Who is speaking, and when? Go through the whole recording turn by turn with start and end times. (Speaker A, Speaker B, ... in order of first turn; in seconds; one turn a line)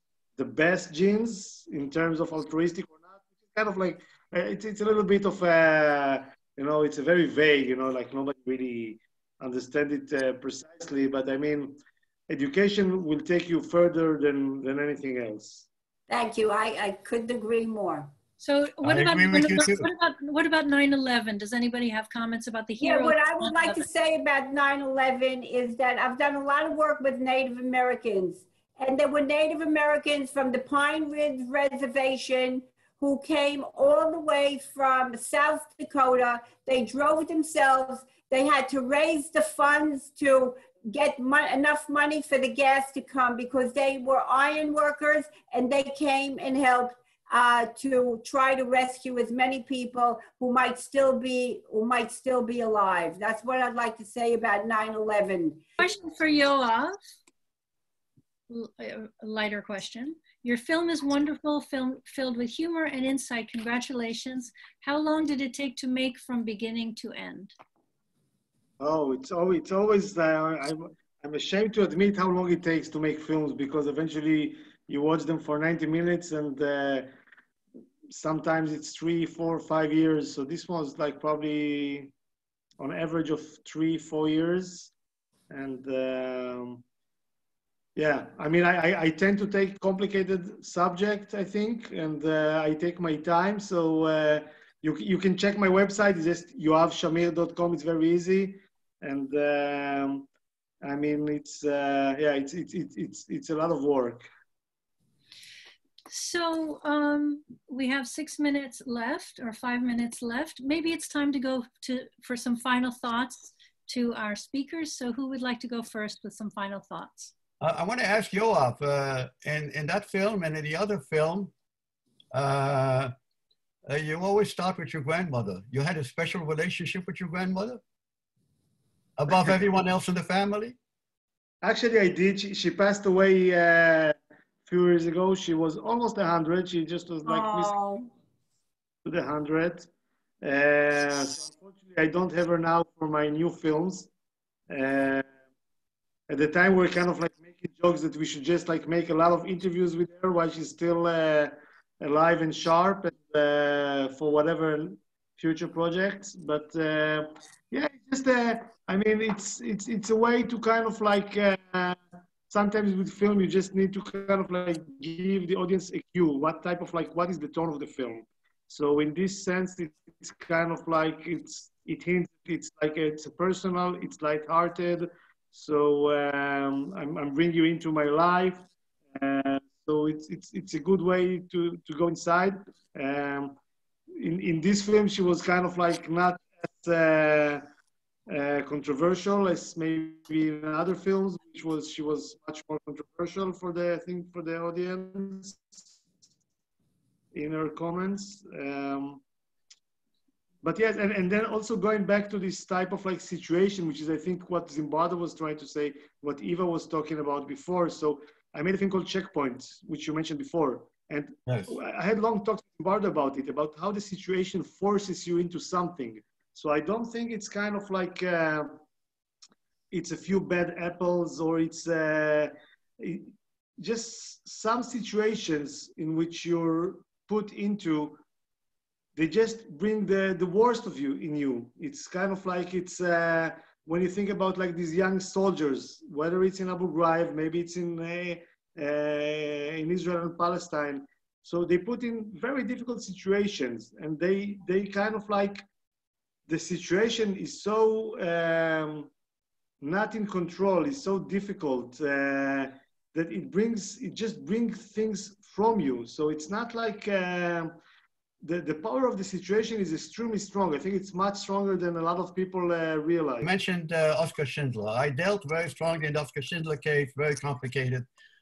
Speaker A: 0.4-15.7
Speaker B: 16.1-18.1
Speaker C: 18.4-23.8
Speaker D: 18.8-19.9
Speaker B: 22.8-55.6
Speaker C: 55.8-57.0
Speaker C: 58.5-67.5
Speaker A: 68.8-77.1
Speaker A: 78.1-82.1
Speaker A: 82.8-84.9
Speaker A: 85.5-86.8
Speaker A: 88.0-100.2
Speaker A: 100.8-104.3
Speaker C: 106.1-117.3
Speaker D: 117.6-121.5
Speaker D: 122.3-123.1
Speaker D: 123.8-127.8
Speaker D: 129.2-130.8
Speaker A: 131.6-134.1
Speaker A: 134.7-137.7
Speaker B: 137.2-138.1
Speaker A: 139.0-139.9
Speaker A: 140.4-144.1
Speaker A: 144.7-145.3
Speaker A: 146.3-183.6
Speaker A: 184.2-187.6
Speaker A: 188.3-195.9
Speaker A: 197.3-199.2
Speaker A: 200.6-218.7
Speaker D: 211.5-211.7
Speaker A: 219.9-228.2
Speaker A: 229.2-245.6
Speaker A: 246.5-249.1
Speaker A: 249.8-257.7
Speaker A: 258.4-263.5
Speaker D: 263.4-268.1